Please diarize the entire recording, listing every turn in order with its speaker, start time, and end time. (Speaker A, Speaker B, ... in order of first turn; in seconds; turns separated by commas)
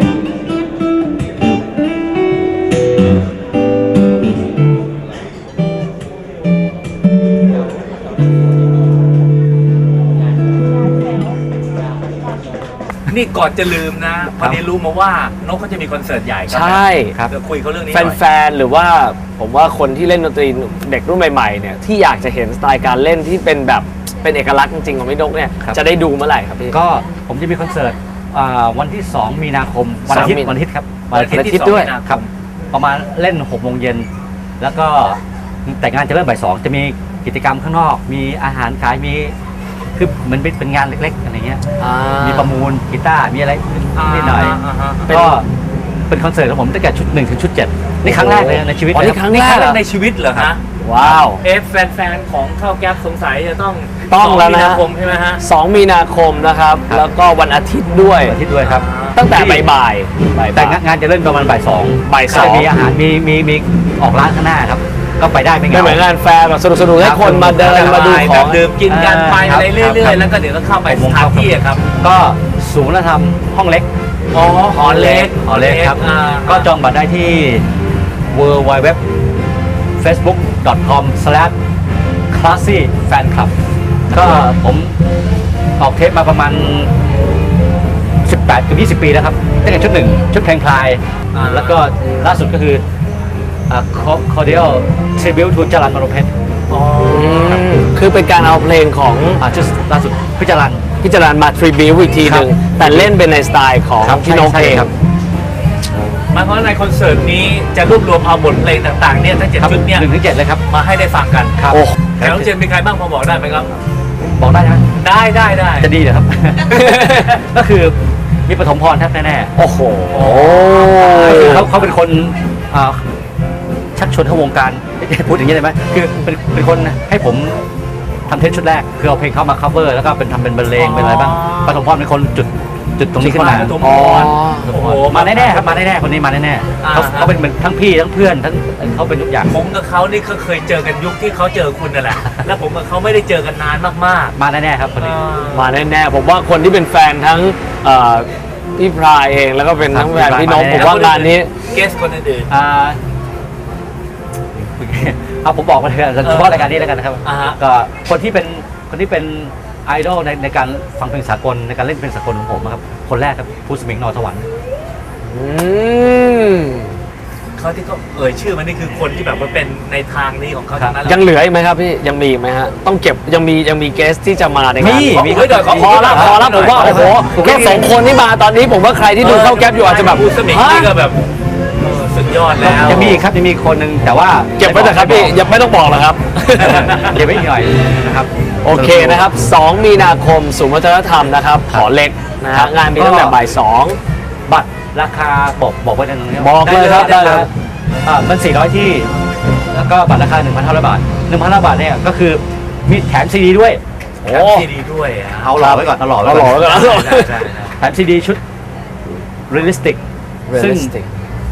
Speaker A: 13.1-18.2, Speaker B: 16.5-17.1, Speaker B: 17.9-26.8, Speaker C: 26.7-34.1, Speaker B: 30.1-30.6, Speaker A: 31.1-32.3, Speaker B: 31.3-31.9, Speaker C: 34.6-39.3, Speaker C: 40.0-41.6, Speaker B: 41.8-42.5, Speaker C: 42.2-44.6, Speaker A: 44.0-45.1, Speaker B: 45.1-45.4, Speaker C: 45.1-45.5, Speaker C: 46.1-49.2, Speaker B: 48.0-49.8, Speaker A: 49.1-55.4, Speaker B: 50.8-51.4, Speaker B: 54.1-54.8, Speaker B: 55.4-58.4, Speaker C: 58.2-59.7, Speaker A: 58.6-59.2, Speaker B: 59.1-60.8, Speaker C: 60.5-66.0, Speaker B: 62.0-62.7, Speaker A: 62.3-62.6, Speaker B: 65.7-68.6, Speaker C: 67.0-68.2, Speaker A: 67.6-71.8, Speaker C: 68.9-70.2, Speaker C: 70.8-73.9, Speaker A: 74.3-76.7, Speaker B: 74.8-75.2, Speaker C: 75.1-77.6, Speaker C: 78.3-79.0, Speaker C: 80.0-81.5, Speaker C: 82.3-83.5, Speaker C: 84.1-84.9, Speaker C: 85.8-86.9, Speaker C: 88.2-92.8, Speaker A: 91.3-91.9, Speaker C: 93.7-96.3, Speaker A: 96.7-97.7, Speaker B: 97.1-99.4, Speaker C: 99.4-100.8, Speaker B: 101.0-104.9, Speaker C: 102.2-103.1, Speaker C: 104.0-104.9, Speaker A: 106.3-110.0, Speaker C: 109.6-110.6, Speaker A: 110.7-111.6, Speaker C: 111.6-112.5, Speaker A: 112.2-113.7, Speaker C: 114.4-114.8, Speaker A: 115.0-115.9, Speaker C: 115.8-118.0, Speaker B: 116.8-117.3, Speaker C: 118.5-119.5, Speaker B: 119.6-121.7, Speaker C: 120.2-123.0, Speaker A: 121.2-121.7, Speaker C: 124.0-127.6, Speaker C: 128.3-133.8, Speaker A: 130.8-131.8, Speaker A: 133.2-135.8, Speaker B: 133.8-134.7, Speaker C: 134.7-139.5, Speaker A: 136.8-137.3, Speaker A: 139.5-144.3, Speaker C: 144.4-145.2, Speaker A: 145.0-145.8, Speaker B: 145.5-151.5, Speaker C: 149.8-151.0, Speaker A: 150.7-152.5, Speaker C: 152.5-153.0, Speaker C: 154.5-164.4, Speaker A: 156.2-156.7, Speaker A: 157.2-157.6, Speaker B: 165.3-166.9, Speaker A: 167.6-171.3, Speaker C: 170.7-171.0, Speaker B: 171.1-180.9, Speaker C: 174.8-177.9, Speaker A: 174.8-177.8, Speaker A: 179.2-181.2, Speaker A: 181.8-183.2, Speaker C: 182.6-185.4, Speaker B: 182.9-183.2, Speaker B: 184.6-187.1, Speaker A: 186.7-187.2, Speaker C: 186.7-189.3, Speaker B: 188.7-194.0, Speaker C: 192.5-193.4, Speaker C: 194.5-197.5, Speaker B: 196.4-197.5, Speaker A: 196.7-197.4, Speaker C: 198.0-199.1, Speaker C: 199.7-203.8, Speaker A: 204.3-205.6, Speaker B: 204.3-204.7, Speaker C: 205.4-206.9, Speaker B: 205.6-207.5, Speaker A: 206.6-207.7, Speaker C: 207.8-208.4, Speaker C: 209.5-210.0, Speaker B: 210.5-211.1, Speaker C: 210.5-210.9